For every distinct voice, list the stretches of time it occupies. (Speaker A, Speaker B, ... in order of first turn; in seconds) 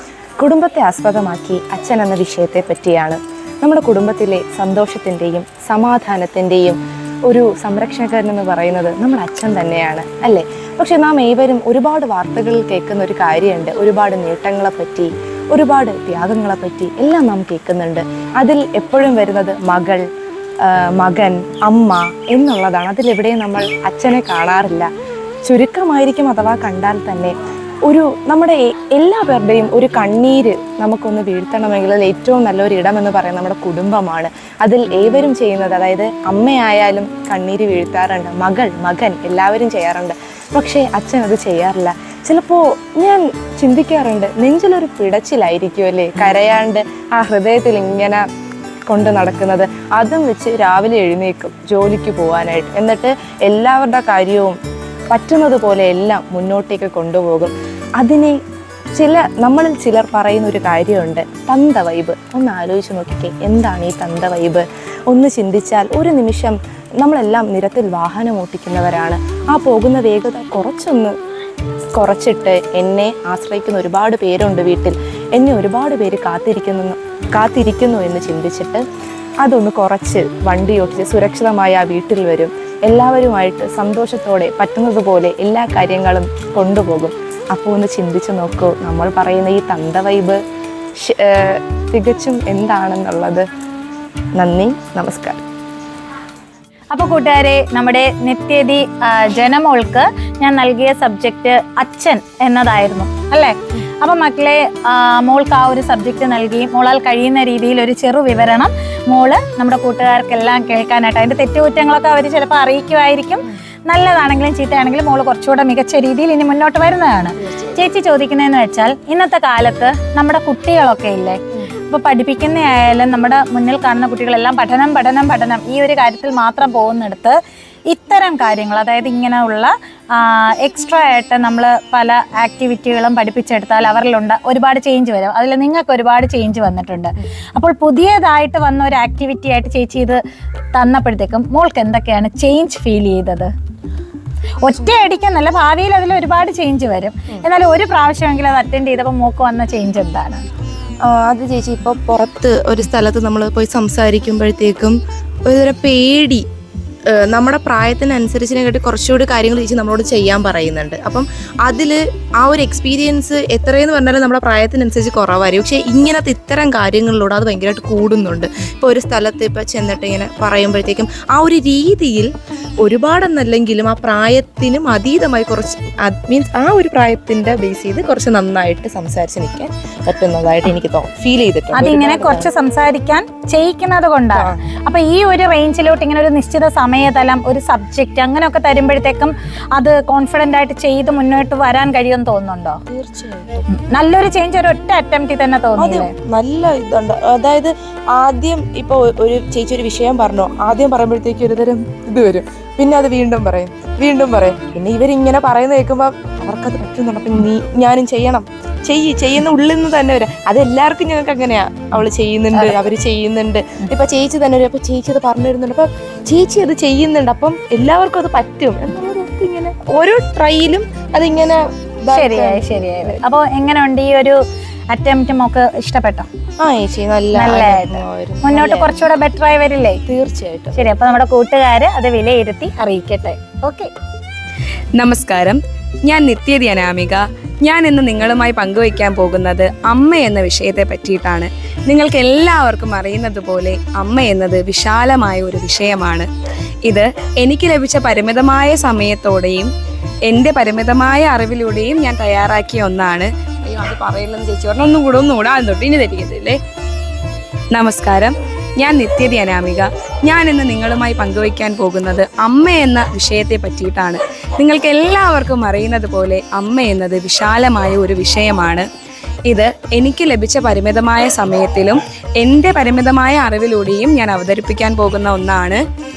Speaker A: 0.4-20.0, 20.6-24.9, 25.4-27.3, 27.9-48.2, 48.9-54.6, 55.1-58.4, 59.0-71.1, 71.9-78.8, 79.4-90.4, 91.0-93.5, 94.4-95.4, 151.0-156.4, 157.1-182.5, 192.9-193.6, 195.8-223.2, 226.6-229.0, 230.1-230.9
Speaker B: 96.9-140.2, 140.7-143.5, 144.6-150.4, 181.7-192.8, 193.7-196.1, 222.1-224.4, 224.9-226.3, 227.3-230.0, 230.7-233.9
Speaker C: 234.9-246.3, 246.9-249.7, 250.2-256.6, 257.7-268.9, 269.5-275.8